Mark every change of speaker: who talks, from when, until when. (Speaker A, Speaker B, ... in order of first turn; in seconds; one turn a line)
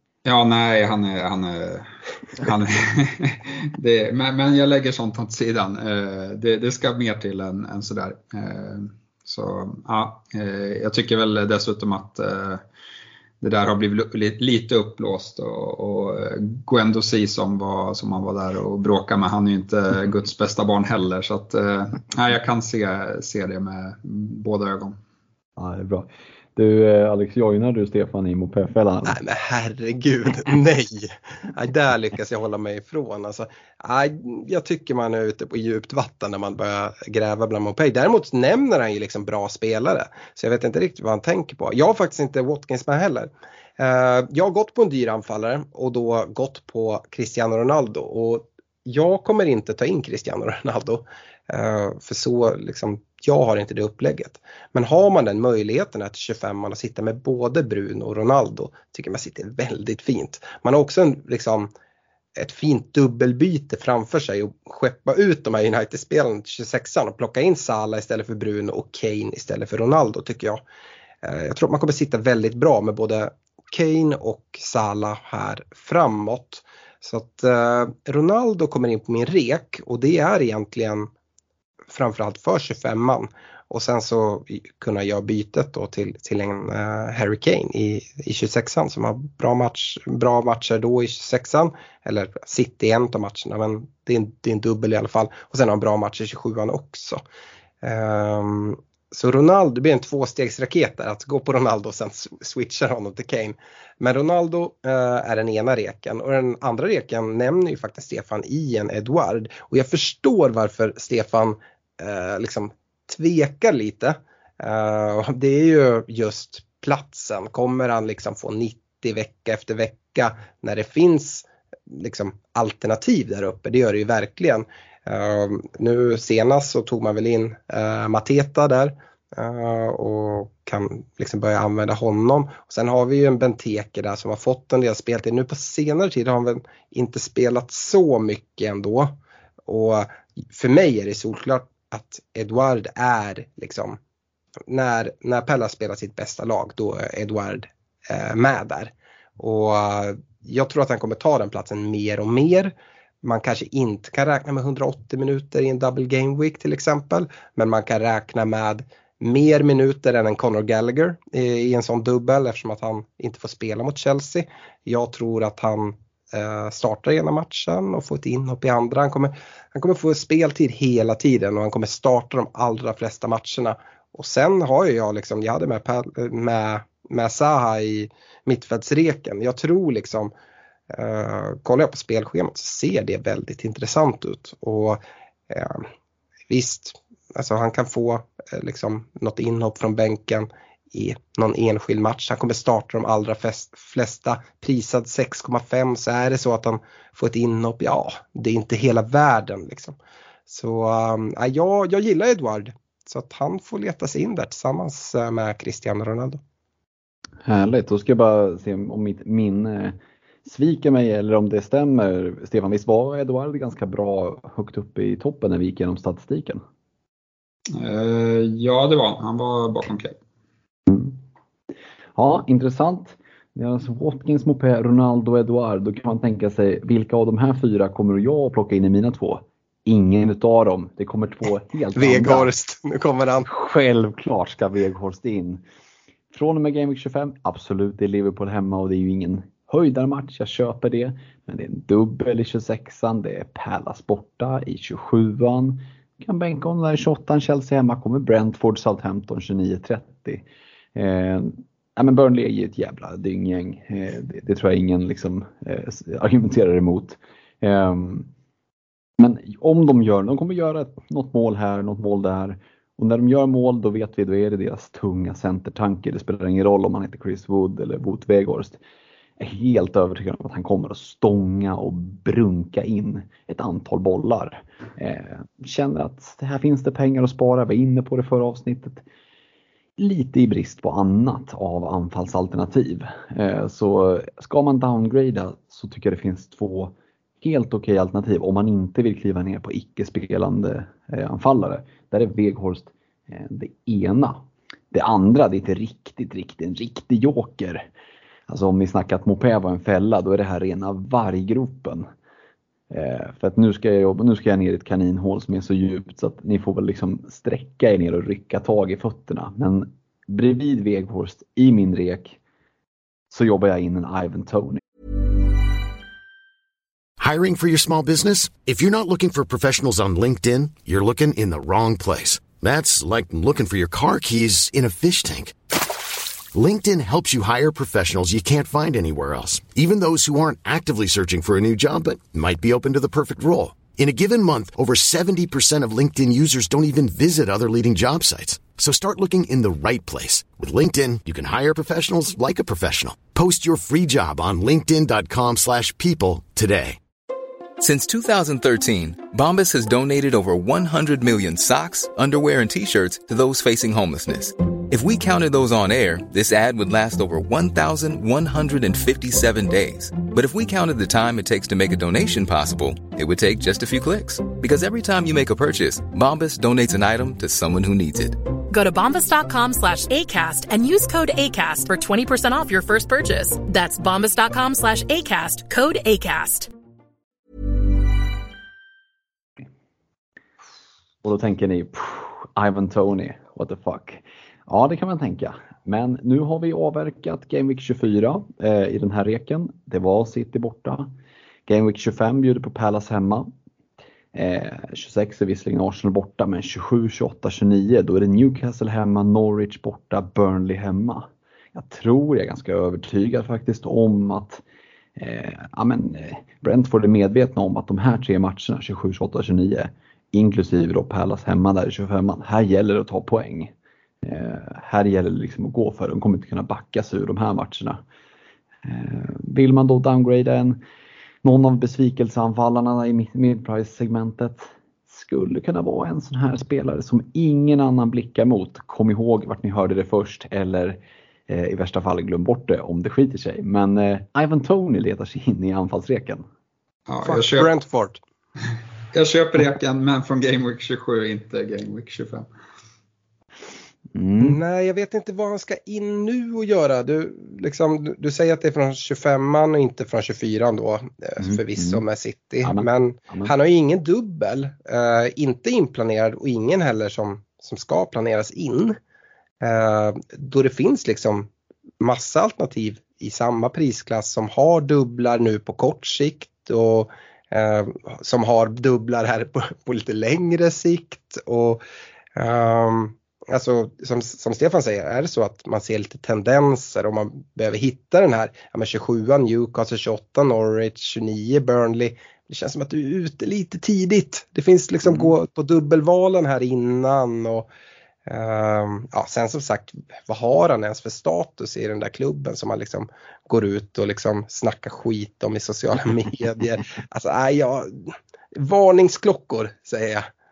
Speaker A: 0.2-12.6
Speaker A: 13.4-25.0
Speaker B: 25.6-29.2
Speaker C: 29.1-61.7
Speaker C: 62.4-70.6
Speaker C: 71.2-81.1
Speaker C: 81.9-97.2
Speaker C: 97.8-139.1
Speaker C: 139.7-144.0
Speaker C: 144.7-180.3
Speaker C: 180.9-185.8
Speaker C: 186.5-199.9
Speaker C: 200.5-206.4
Speaker B: 207.4-216.6
Speaker A: 217.7-220.2
Speaker B: 220.9-221.2
Speaker B: 222.2-232.5
Speaker C: 231.9-233.5
Speaker B: 233.4-235.6
Speaker B: 236.3-250.4
Speaker B: 250.9-258.3
Speaker B: 259.2-268.8
Speaker B: 269.4-279.0
Speaker B: 280.0-297.9
Speaker B: 298.5-302.1
Speaker B: 302.9-312.4
Speaker B: 313.3-314.8
Speaker D: 317.2-325.6
Speaker D: 326.5-347.0
Speaker E: 347.8-368.4
Speaker F: 368.7-376.7
Speaker B: 381.2-391.1
Speaker B: 391.7-393.5
Speaker B: 394.3-404.6
Speaker B: 405.1-413.7
Speaker B: 414.2-418.0
Speaker B: 418.8-420.8
Speaker B: 421.4-436.4
Speaker A: 437.1-437.7
Speaker C: 437.2-438.2
Speaker A: 439.1-442.5
Speaker B: 444.1-444.6
Speaker C: 444.4-459.0
Speaker B: 451.4-452.0
Speaker B: 452.6-453.5
Speaker C: 459.6-461.5
Speaker C: 462.0-471.8
Speaker C: 472.4-487.7
Speaker C: 488.3-500.3